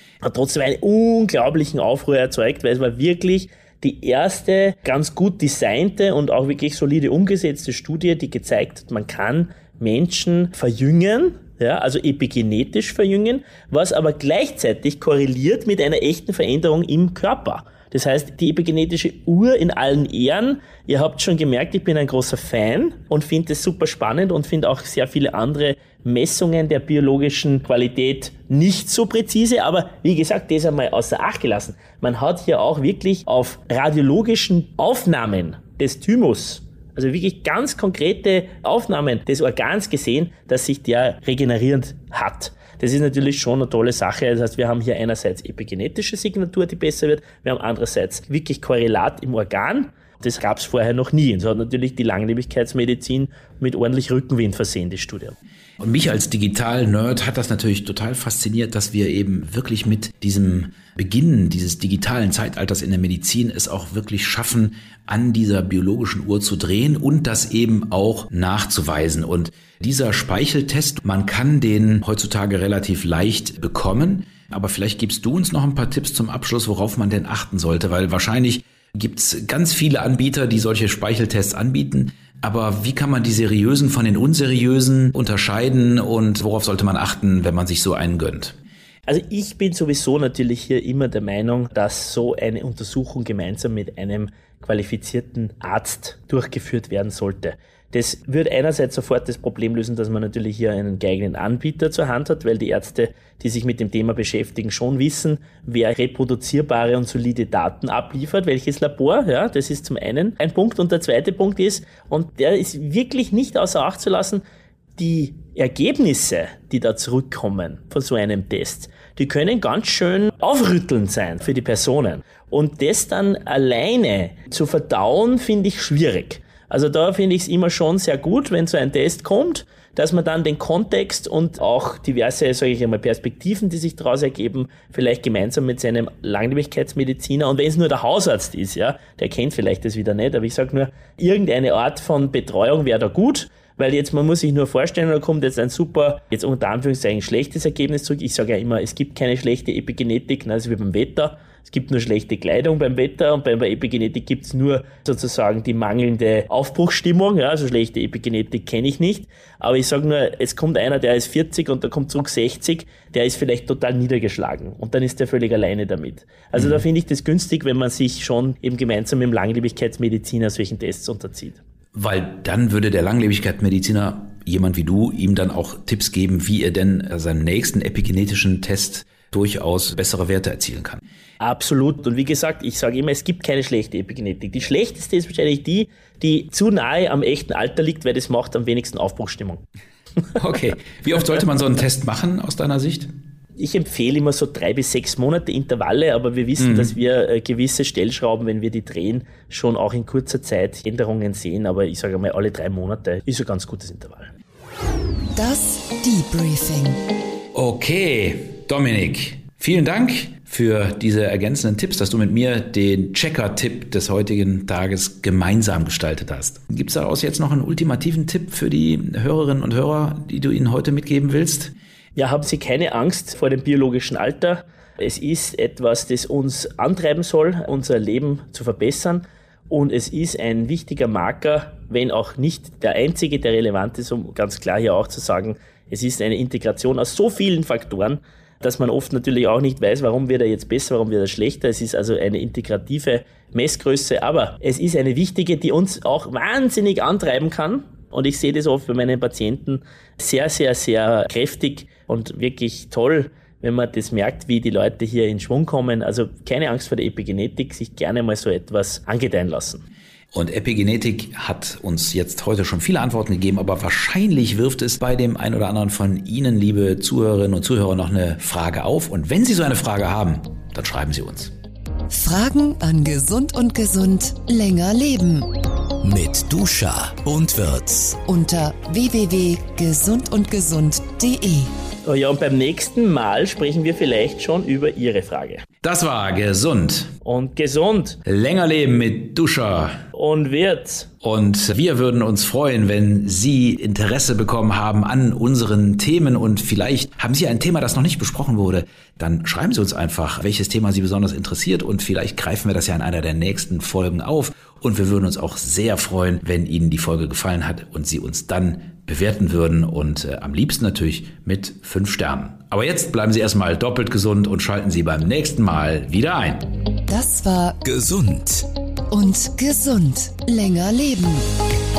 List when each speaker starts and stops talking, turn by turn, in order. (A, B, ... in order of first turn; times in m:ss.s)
0:00.2-0:55.4 A
0:55.8-1:28.6 B
1:29.1-1:54.4 A
1:55.0-2:51.6 A
2:46.6-2:46.8 B
2:51.9-3:01.0 B
3:01.4-3:09.6 A
3:10.4-3:13.1 B
3:13.6-3:24.3 A
3:16.6-3:16.9 B
3:25.4-3:27.0 C
3:27.5-3:41.7 B
3:42.2-4:19.8 A
4:20.3-4:31.5 B
4:32.1-4:35.5 C
4:36.0-4:38.2 D
4:38.2-4:41.7 C
4:42.0-4:45.6 A
4:45.8-4:47.1 B
4:47.2-4:48.2 A
4:48.2-4:50.0 B
4:50.1-4:51.1 A
4:51.2-5:16.7 B
5:17.1-5:17.8 C
5:17.8-5:18.7 D
5:19.1-5:21.5 C